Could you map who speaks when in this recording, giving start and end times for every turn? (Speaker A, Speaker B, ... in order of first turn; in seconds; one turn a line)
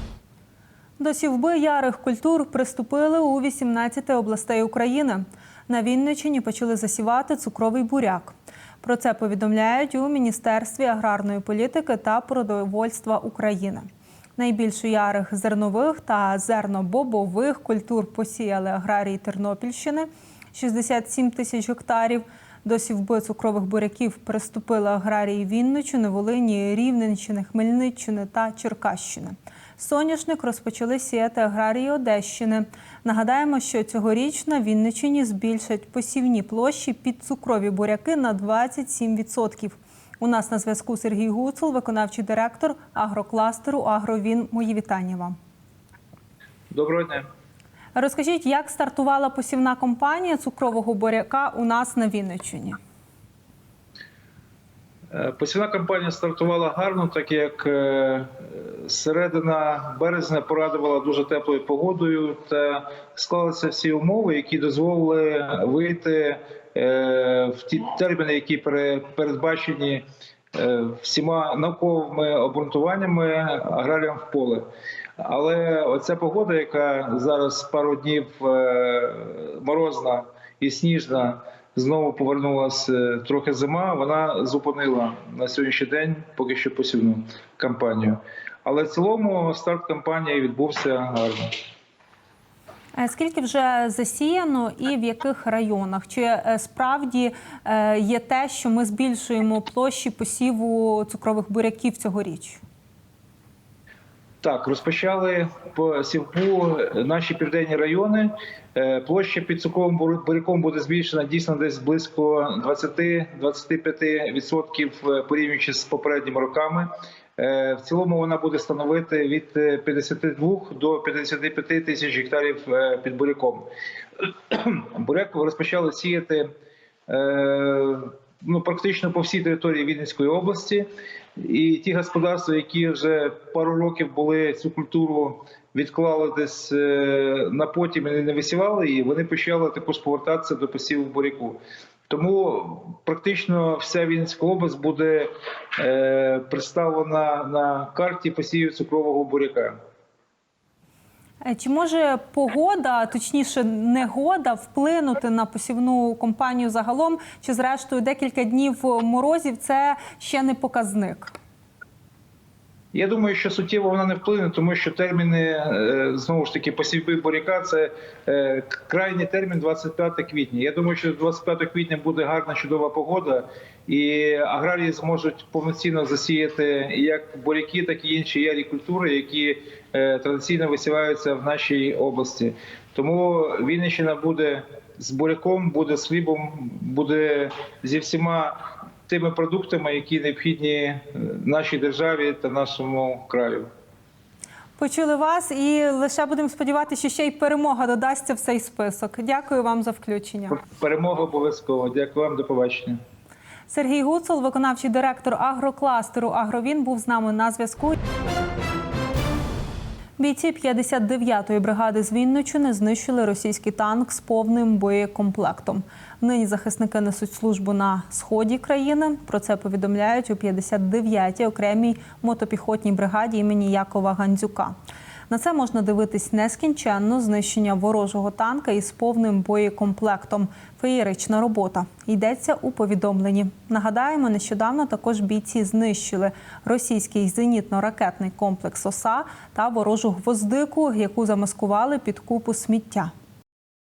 Speaker A: 1.0-45.4
Speaker B: 46.7-47.3
Speaker A: 48.0-52.8
Speaker B: 55.1-91.5
Speaker A: 93.0-102.6
Speaker B: 104.4-123.7
Speaker B: 124.2-126.5
Speaker B: 127.1-149.8
Speaker A: 151.4-161.3
Speaker B: 162.9-193.7
Speaker A: 194.8-200.6
Speaker B: 200.6-203.0
Speaker A: 203.7-208.0
Speaker A: 210.2-224.7
Speaker A: 225.3-243.1